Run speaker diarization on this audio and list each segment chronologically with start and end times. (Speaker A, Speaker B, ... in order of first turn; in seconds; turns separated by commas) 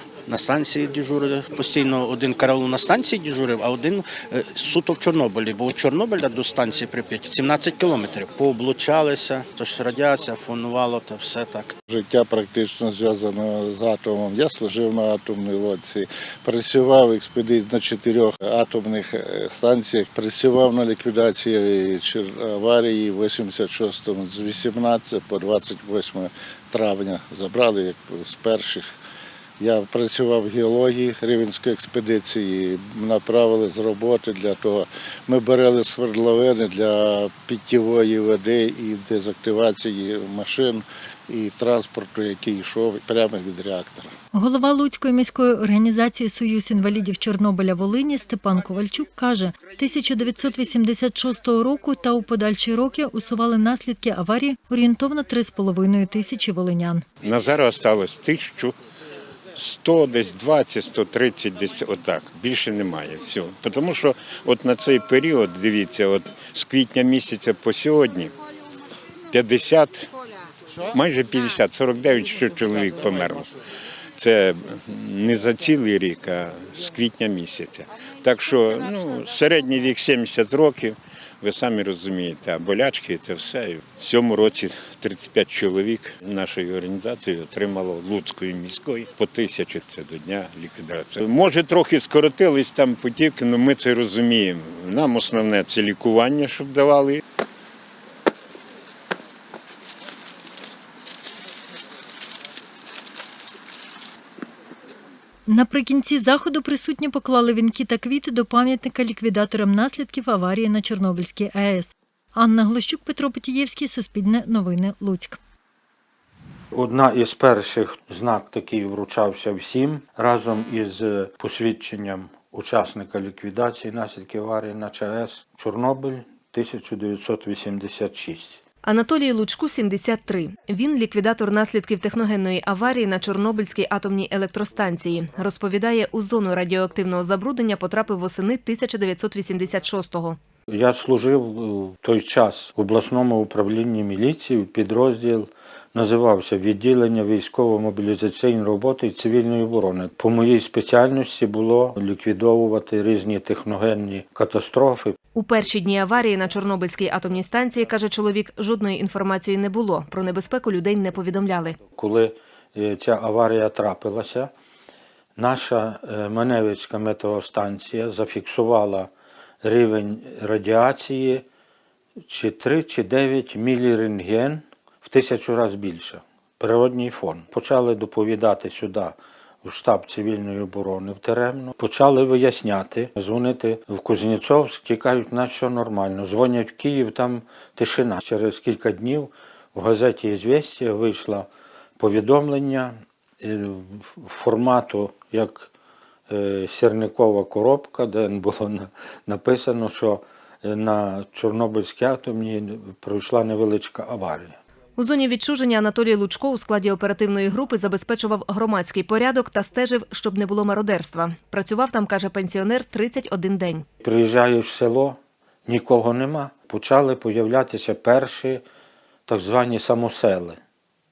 Speaker A: 0.3-11.7, Speaker B: 11.9-28.9, Speaker B: 29.6-44.1, Speaker C: 44.3-57.0, Speaker D: 57.2-58.7, Speaker D: 59.5-68.3, Speaker D: 69.3-70.1, Speaker D: 70.8-73.5, Speaker D: 74.2-97.2, Speaker C: 105.5-115.4, Speaker E: 116.7-128.6, Speaker F: 128.8-140.4, Speaker E: 140.7-155.2, Speaker F: 155.3-161.8, Speaker E: 162.0-164.5, Speaker E: 165.4-169.1, Speaker E: 169.6-171.4, Speaker E: 172.3-191.5, Speaker E: 192.0-195.7, Speaker E: 196.3-204.6, Speaker F: 205.0-213.8, Speaker E: 214.0-218.6, Speaker E: 219.3-220.6